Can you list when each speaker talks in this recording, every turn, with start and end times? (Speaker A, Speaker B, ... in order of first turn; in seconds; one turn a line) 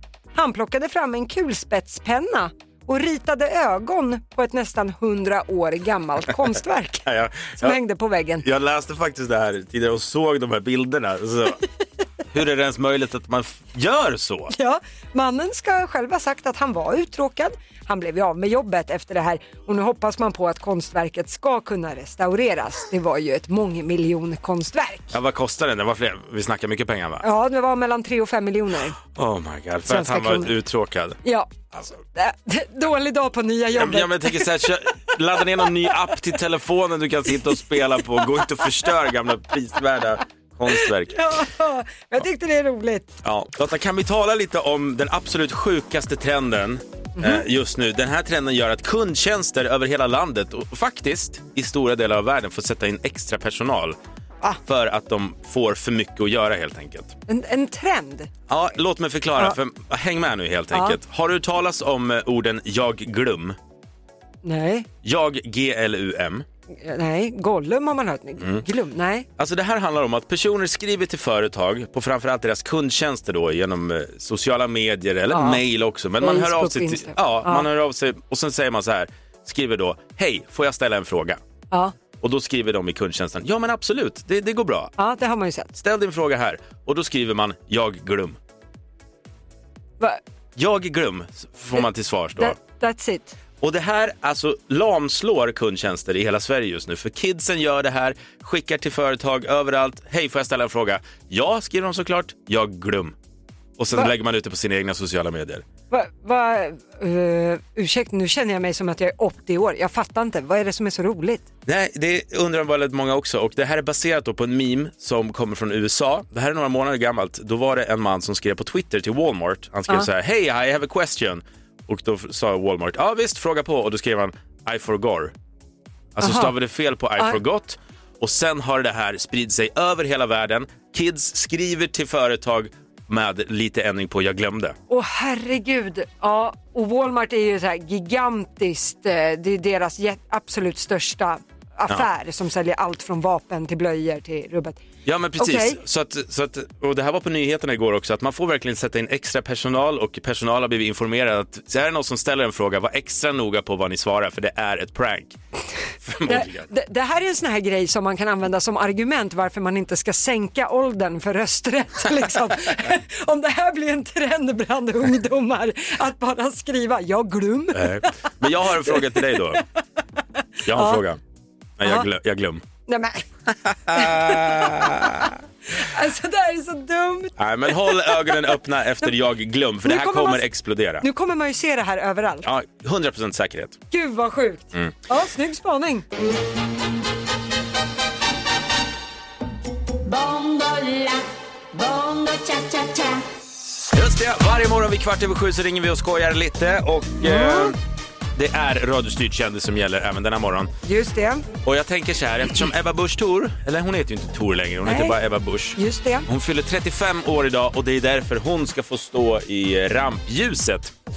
Speaker A: 0.3-8.4
Speaker B: 7.1-7.8
Speaker B: 8.4-11.6
Speaker B: 12.3-14.5
Speaker A: 14.5-25.1
Speaker B: 25.1-27.2
Speaker A: 27.2-29.0
Speaker B: 29.1-31.2
Speaker A: 29.9-30.5
Speaker A: 31.2-31.5
Speaker A: 32.1-34.7
Speaker B: 33.8-41.2
Speaker A: 40.9-43.1
Speaker B: 43.2-54.0
Speaker A: 47.2-47.5
Speaker B: 54.6-57.1
Speaker A: 57.3-58.3
Speaker B: 58.5-63.6
Speaker A: 60.7-61.0
Speaker A: 64.4-64.9
Speaker B: 65.0-66.5
Speaker A: 66.8-69.3
Speaker B: 69.4-81.4
Speaker A: 75.3-75.6
Speaker A: 76.2-77.7
Speaker B: 82.2-84.9
Speaker A: 85.0-85.7
Speaker B: 85.8-88.4
Speaker B: 90.6-92.6
Speaker A: 92.4-93.4
Speaker B: 93.6-103.2
Speaker B: 103.8-105.6
Speaker A: 105.9-111.5
Speaker B: 111.7-125.3
Speaker B: 126.2-134.8
Speaker A: 126.2-126.5
Speaker A: 134.9-144.8
Speaker B: 145.1-155.4
Speaker A: 145.4-145.8
Speaker B: 156.0-156.7
Speaker A: 156.3-168.3
Speaker B: 167.7-169.6
Speaker A: 168.8-169.6
Speaker B: 170.7-171.2
Speaker A: 170.7-171.0
Speaker B: 171.8-172.6
Speaker A: 172.9-173.2
Speaker B: 173.6-175.4
Speaker A: 173.9-178.4
Speaker B: 177.4-181.1
Speaker A: 179.8-180.4
Speaker A: 181.0-182.5
Speaker B: 182.4-183.8
Speaker A: 183.9-186.1
Speaker C: 190.0-193.2
Speaker B: 193.9-197.8
Speaker A: 197.2-197.7
Speaker B: 198.3-200.7
Speaker A: 200.8-201.5
Speaker B: 201.6-210.9
Speaker A: 204.9-205.2
Speaker A: 205.8-206.3